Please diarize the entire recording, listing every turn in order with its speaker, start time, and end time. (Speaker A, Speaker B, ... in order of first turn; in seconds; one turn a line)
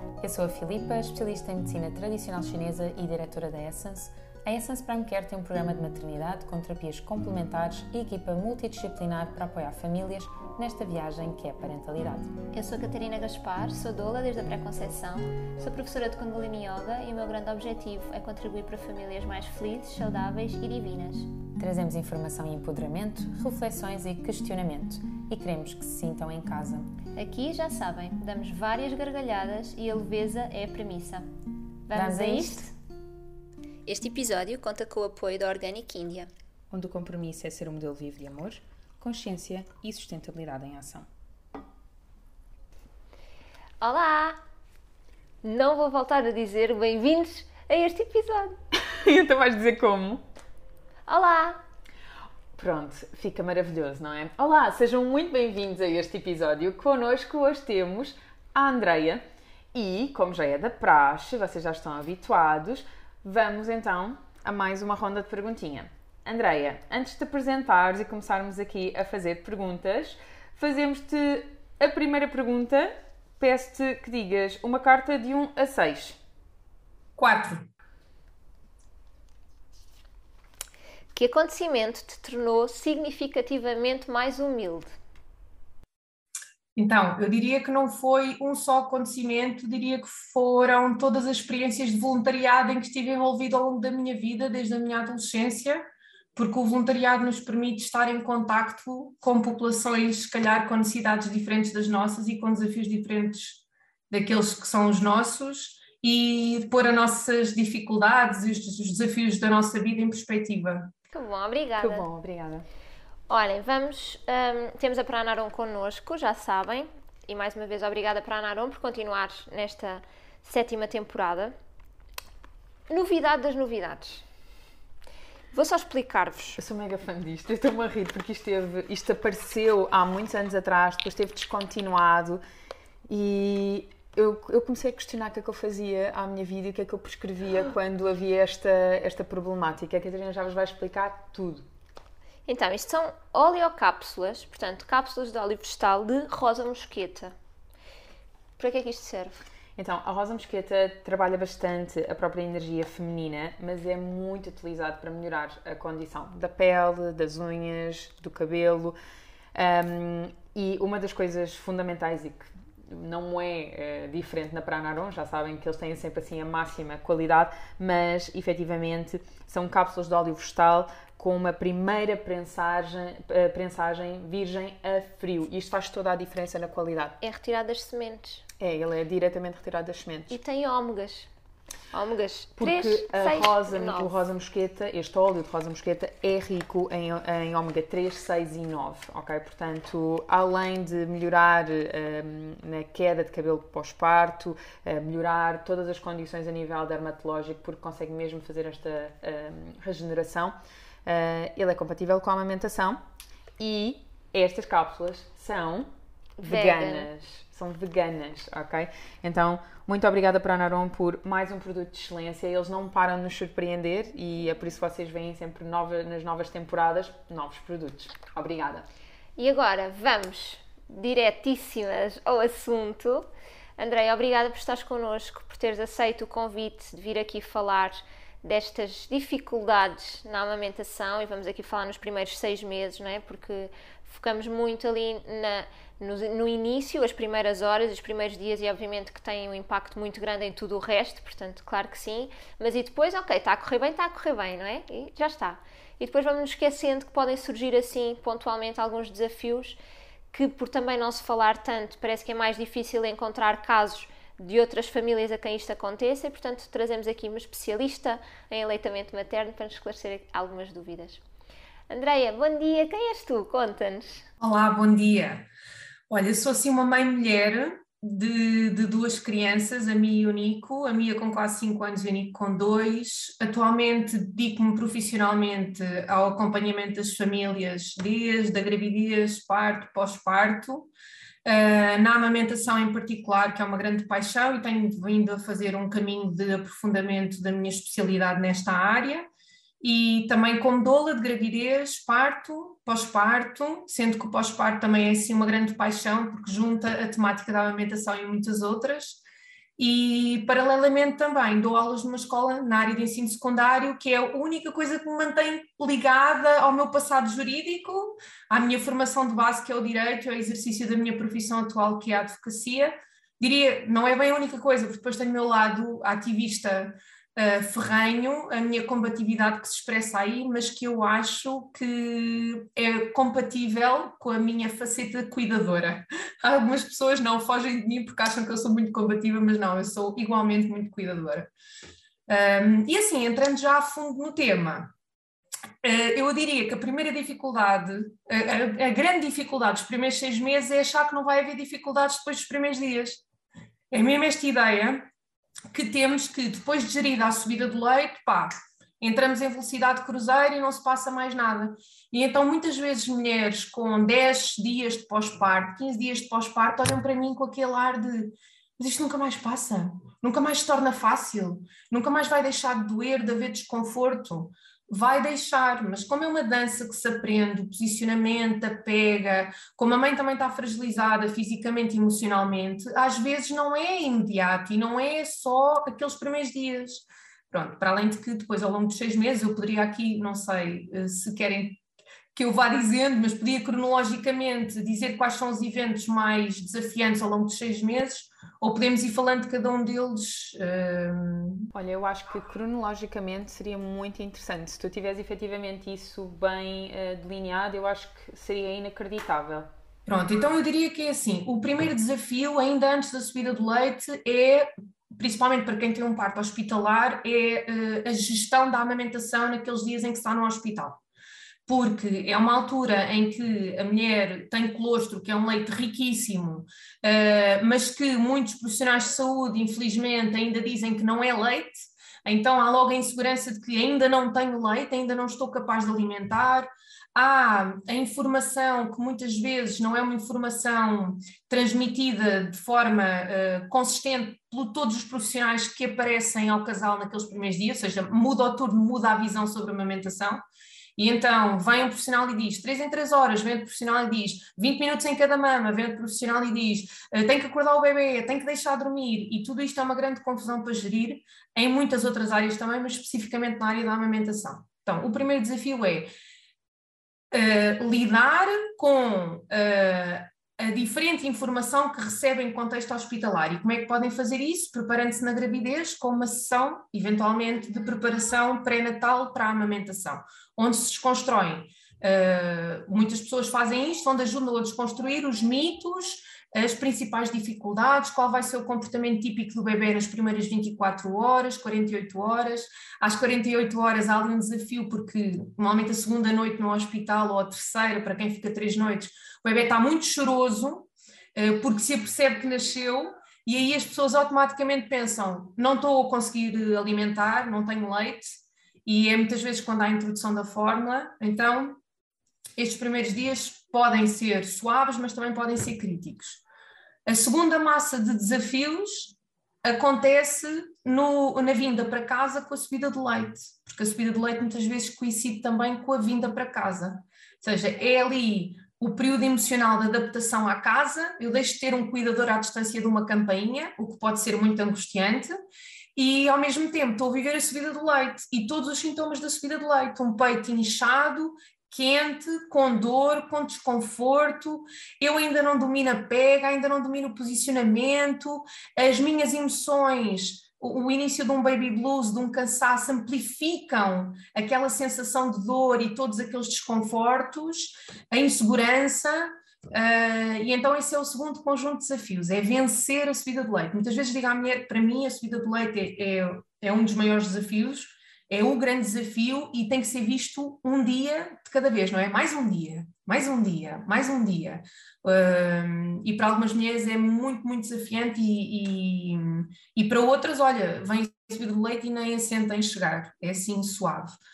Speaker A: 0.2-12.3
Speaker B: 12.5-21.3
Speaker A: 21.6-26.9
Speaker B: 27.1-31.3
Speaker B: 31.9-32.7
Speaker A: 31.9-32.7
Speaker B: 33.9-36.3
Speaker A: 36.7-41.1
Speaker B: 43.8-44.4
Speaker B: 45.4-48.6
Speaker A: 48.7-50.2
Speaker B: 51.1-51.6
Speaker A: 52.6-59.2
Speaker A: 59.7-76.2
Speaker C: 77.2-77.7
Speaker B: 81.2-84.9
Speaker C: 86.8-110.9
Speaker B: 111.1-112.1
Speaker A: 111.8-112.7
Speaker B: 113.3-121.5
Speaker B: 122.9-124.2
Speaker B: 125.5-126.6
Speaker A: 126.6-132.4
Speaker A: 133.1-141.7
Speaker B: 142.5-147.3
Speaker B: 148.6-149.5
Speaker A: 149.8-159.0
Speaker A: 159.5-177.2
Speaker B: 177.2-178.4
Speaker A: 178.6-180.4
Speaker B: 180.3-181.3
Speaker B: 181.9-184.2
Speaker A: 182.6-203.0
Speaker A: 203.6-205.9
Speaker B: 206.4-207.1
Speaker A: 206.4-218.9
Speaker B: 219.4-223.3
Speaker B: 223.8-249.8
Speaker B: 250.3-261.2
Speaker B: 261.9-264.2
Speaker C: 264.4-265.4
Speaker C: 266.1-280.9
Speaker C: 281.4-289.3
Speaker C: 289.8-299.2
Speaker C: 299.8-331.5
Speaker C: 332.3-334.9
Speaker C: 335.8-343.2
Speaker C: 343.9-345.1
Speaker C: 345.7-381.8
Speaker C: 382.3-391.7
Speaker A: 391.7-399.7
Speaker C: 400.1-411.0
Speaker C: 411.7-440.4
Speaker C: 441.0-456.1
Speaker C: 457.3-498.3
Speaker C: 498.9-501.8
Speaker C: 502.6-506.4
Speaker C: 507.1-525.3
Speaker C: 526.0-574.2